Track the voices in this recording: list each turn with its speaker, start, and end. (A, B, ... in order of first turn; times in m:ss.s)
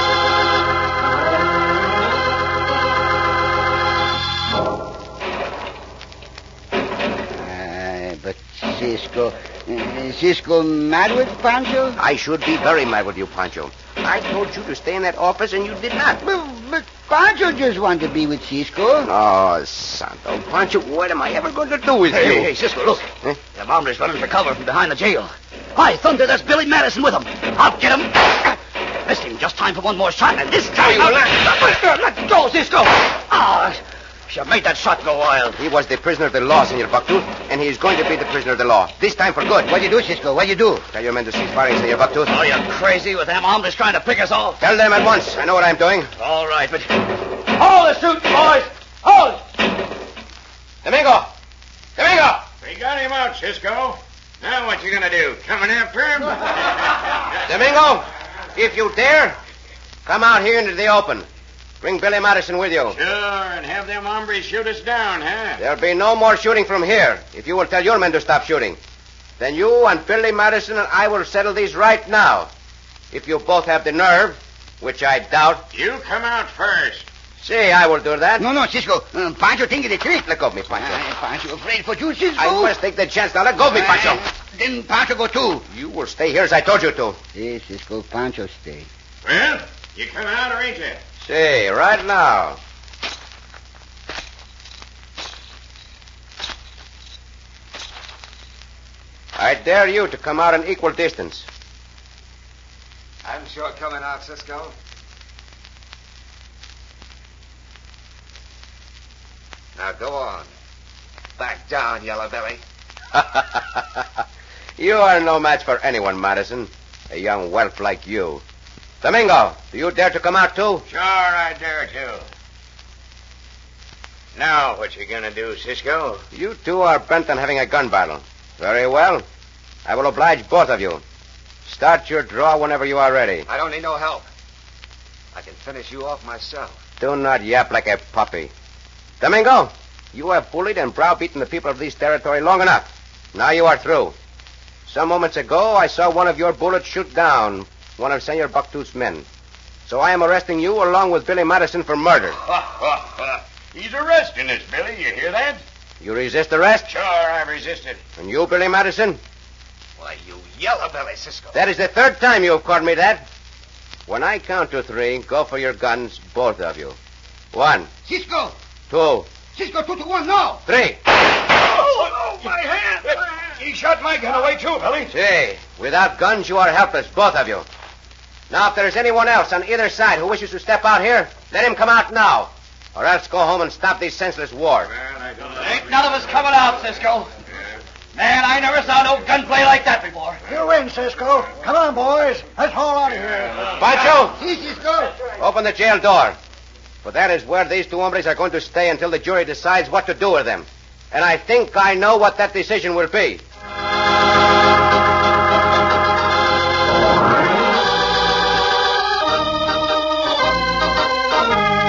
0:07.3-0:12.0 A
0:12.0-0:16.2 B
0:16.2-0:19.1 A
0:19.0-0:22.5 B
0:22.1-0:35.6 C
0:30.8-0:31.2 B
0:35.6-0:39.7 B
0:39.7-0:40.8 A
0:40.9-0:42.3 B
0:42.3-0:44.6 C
0:44.6-0:46.1 B
0:46.2-0:49.5 C
0:50.8-0:51.3 B
0:52.0-0:52.5 B
0:52.6-0:56.8 D
0:57.4-0:59.4 B
1:00.0-1:01.2 B
1:01.8-1:03.0 B
1:02.9-1:05.6 D
1:05.6-1:08.8 B
1:09.4-1:12.5 B
1:13.1-1:15.6 B
1:15.7-1:17.1 D
1:17.4-1:18.4 B
1:18.4-1:22.7 A
1:20.2-1:21.0 B
1:22.4-1:24.2 B
1:23.6-1:25.6 A
1:25.7-1:27.2 B
1:27.3-1:28.9 A
1:29.2-1:31.0 D
1:31.2-1:32.6 B
1:39.4-1:41.4 B
1:43.2-1:44.7 E
1:49.8-1:50.5 E
1:51.4-1:52.6 E
1:53.1-1:54.2 B
1:54.8-1:58.4 B
1:59.0-2:00.8 B
2:00.9-2:02.2 D
2:04.3-2:06.2 D
2:06.3-2:09.2 B
2:09.8-2:11.0 B
2:11.6-2:13.4 B
2:13.4-2:14.3 E
2:15.3-2:16.8 E
2:17.0-2:18.5 B
2:19.2-2:24.1 B
2:24.9-2:29.2 B
2:29.9-2:32.4 B
2:32.4-2:35.6 D
2:36.0-2:36.9 B
2:36.9-2:38.0 D
2:38.2-2:39.2 B
2:40.0-2:41.6 E
2:41.5-2:43.3 B
2:44.1-2:47.0 B
2:47.5-2:47.9 B
2:48.0-2:48.5 A
2:48.9-2:49.3 B
2:49.5-2:50.6 A
2:50.6-2:51.0 B
2:51.8-2:55.1 D
2:55.1-2:57.6 B
2:58.5-3:04.9 B
3:05.0-3:05.5 D
3:05.5-3:07.3 C
3:08.1-3:10.4 C
3:10.4-3:13.7 F
3:13.8-3:14.4 B
3:14.3-3:15.1 A
3:15.3-3:16.4 B
3:17.0-3:23.4 B